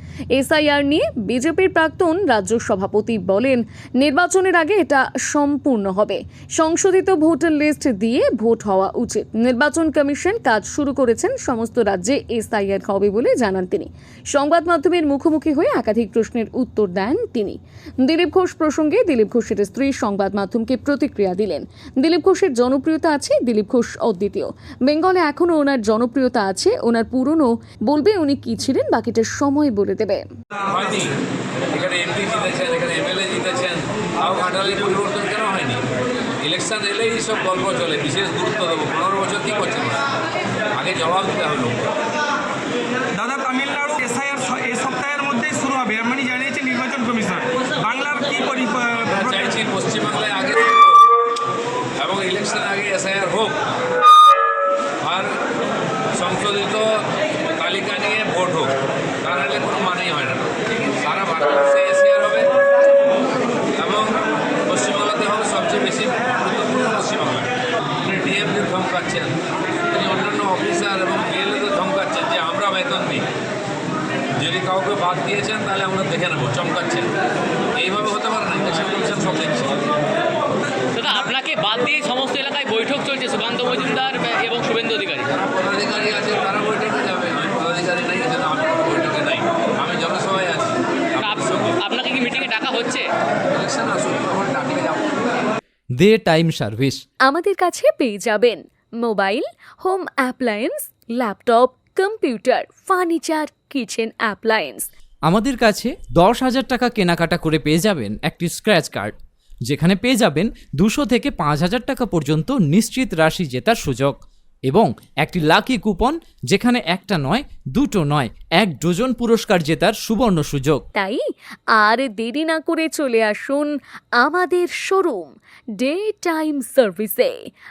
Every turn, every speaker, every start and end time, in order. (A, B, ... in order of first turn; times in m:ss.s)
0:00.3-0:30.2 A
0:30.7-0:31.1 B
0:31.7-0:35.8 B
0:36.4-0:40.0 B
0:40.7-0:41.8 B
0:43.1-0:49.4 C
0:49.1-0:51.0 B
0:52.0-0:53.6 B
0:55.0-0:55.3 B
0:56.1-0:57.0 B
0:57.6-1:02.5 B
1:03.8-1:07.5 B
1:08.0-1:09.3 B
1:09.9-1:13.2 B
1:14.4-1:17.1 B
1:17.8-1:19.8 B
1:20.9-1:25.3 D
1:25.3-1:31.7 B
1:31.2-1:33.0 D
1:33.5-1:35.1 B
1:36.0-1:37.0 E
1:37.2-1:44.9 A
1:45.3-1:49.1 E
1:49.7-1:54.2 E
1:54.7-2:00.8 E
2:00.9-2:01.2 A
2:01.8-2:07.4 A